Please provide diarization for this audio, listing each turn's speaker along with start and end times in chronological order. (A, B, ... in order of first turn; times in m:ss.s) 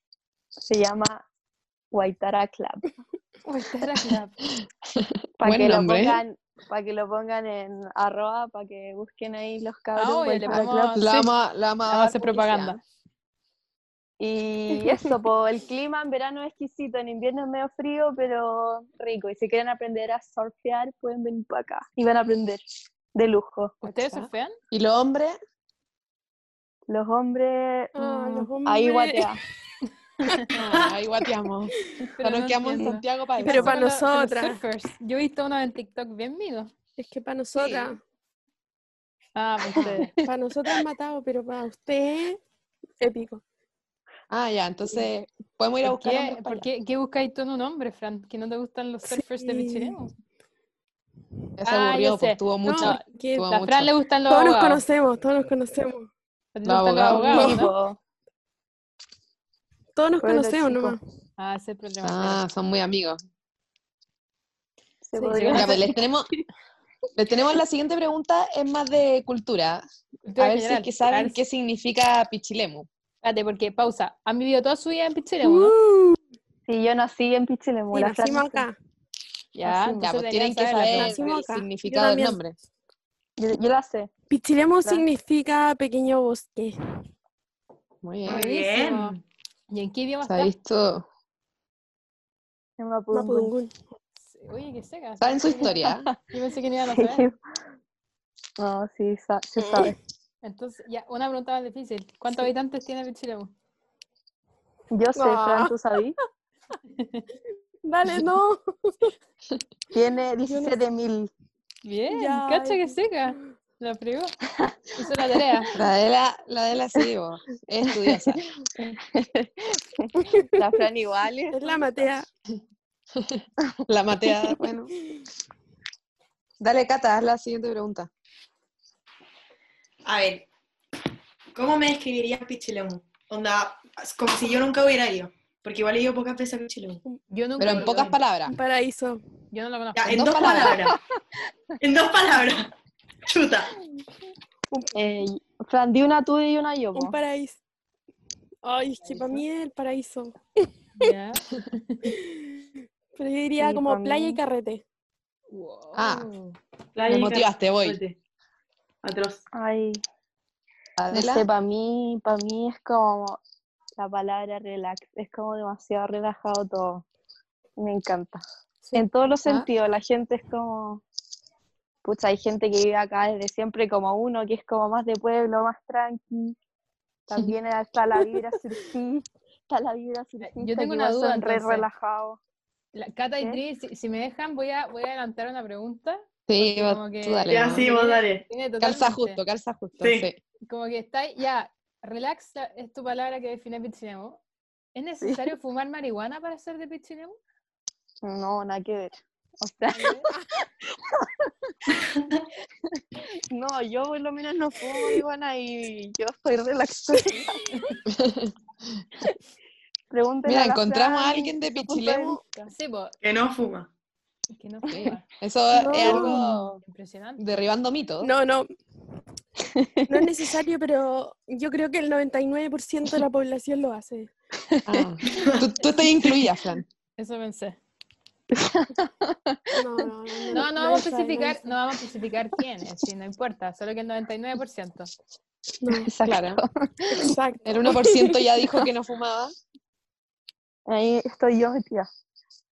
0:00.7-0:01.2 A
0:01.9-0:03.0 A
0:03.4-0:04.4 B
0:05.4-0:11.1 A
0:05.4-0:06.2 C
0:09.9-0:11.3 B
0:10.5-0:12.8 C
0:11.9-0:12.8 B
0:14.2-0:22.6 A
0:23.1-0:23.7 A
0:23.8-0:24.6 B
0:23.8-0:25.3 C
0:26.9-0:27.9 A
0:27.9-0:29.3 D
0:28.0-0:28.5 B
0:28.6-0:29.4 A
0:30.5-0:33.7 C
0:32.0-0:36.7 B
0:33.4-0:34.6 D
0:37.0-0:38.0 D
0:37.5-0:38.0 C
0:39.4-0:40.2 B
0:40.2-0:42.4 D
0:43.0-0:43.4 D
0:44.3-0:46.7 C
0:45.8-0:50.1 B
0:49.1-0:50.0 D
0:51.6-0:53.9 C
0:51.6-0:54.8 B
0:52.6-0:53.5 D
0:54.3-0:56.1 D
0:56.5-0:57.7 B
0:56.6-0:57.6 C
0:57.1-0:58.0 A
0:59.9-1:01.0 D
1:00.2-1:01.0 A
1:01.4-1:02.4 B
1:02.0-1:03.2 C
1:05.0-1:06.4 A
1:05.2-1:05.7 B
1:05.5-1:06.3 C
1:07.1-1:09.8 C
1:10.2-1:11.4 B
1:10.4-1:12.9 C
1:13.2-1:15.7 B
1:15.4-1:16.2 D
1:16.7-1:18.6 A
1:17.9-1:18.8 D
1:19.5-1:21.2 B
1:19.6-1:19.9 A
1:19.9-1:22.6 C
1:20.9-1:22.4 D
1:23.4-1:24.1 A
1:24.3-1:26.8 D
1:28.0-1:28.4 C
1:28.2-1:29.2 B
1:28.3-1:29.2 E
1:29.7-1:30.5 B
1:30.2-1:31.0 C
1:32.8-1:33.5 A
1:33.1-1:33.7 D
1:34.2-1:35.7 B
1:35.2-1:36.0 C
1:35.6-1:36.1 A
1:36.3-1:37.2 B
1:36.9-1:37.4 A
1:38.6-1:40.0 A
1:40.4-1:43.5 B
1:44.9-1:46.2 A
1:45.1-1:45.8 D
1:47.0-1:47.3 B
1:47.8-1:49.1 D
1:49.9-1:51.3 A
1:50.4-1:50.8 D
1:51.8-1:54.4 B
1:52.1-1:53.0 D
1:54.9-1:55.7 B
1:55.7-1:58.4 C
1:58.1-2:02.1 A
2:01.5-2:02.3 D
2:03.2-2:04.9 C
2:06.6-2:08.1 C
2:10.1-2:10.5 E
2:11.5-2:17.0 E
2:17.3-2:18.2 B
2:17.6-2:18.5 C
2:18.5-2:19.2 D
2:19.5-2:20.3 B
2:20.0-2:21.0 E
2:20.0-2:20.8 C
2:20.6-2:20.9 A
2:21.8-2:22.7 E
2:23.3-2:23.7 E
2:24.9-2:27.2 A
2:26.9-2:27.6 D
2:28.6-2:31.0 D
2:29.0-2:29.4 B
2:31.0-2:32.2 B
2:32.2-2:32.6 D
2:33.1-2:34.8 D
2:33.6-2:34.4 A
2:35.5-2:36.6 B
2:35.9-2:36.3 C
2:36.9-2:38.2 E
2:37.1-2:38.0 C
2:39.0-2:39.4 E
2:39.5-2:40.0 A
2:41.0-2:41.4 C
2:41.1-2:43.4 A
2:44.0-2:47.0 A
2:47.8-2:48.4 A
2:48.9-2:51.0 A
2:52.0-2:56.6 A
2:57.3-3:02.4 A
3:00.4-3:01.8 B
3:02.9-3:09.4 B
3:06.5-3:07.9 C
3:07.5-3:08.4 E
3:08.8-3:10.4 C
3:10.0-3:10.2 E
3:10.7-3:14.4 B
3:14.9-3:17.4 B
3:15.2-3:15.4 A
3:18.2-3:20.3 A
3:19.9-3:20.3 B
3:23.5-3:27.6 A
3:28.1-3:28.5 C
3:30.1-3:32.7 A
3:30.4-3:32.4 C
3:32.7-3:33.1 B
3:33.2-3:33.9 E
3:34.5-3:35.2 B
3:34.9-3:36.8 C
3:35.7-3:36.4 A
3:36.0-3:37.4 B
3:37.4-3:38.3 C
3:38.2-3:38.7 D
3:39.8-3:40.3 A
3:40.1-3:44.3 D
3:44.8-3:46.8 C
3:47.2-3:47.8 B
3:48.5-3:49.9 A
3:49.7-3:51.8 D
3:50.5-3:55.1 B
3:55.8-3:56.1 D
3:55.9-3:57.2 A
3:56.2-3:56.6 C
3:57.1-3:58.4 D
3:57.6-3:59.5 C
4:00.9-4:02.0 A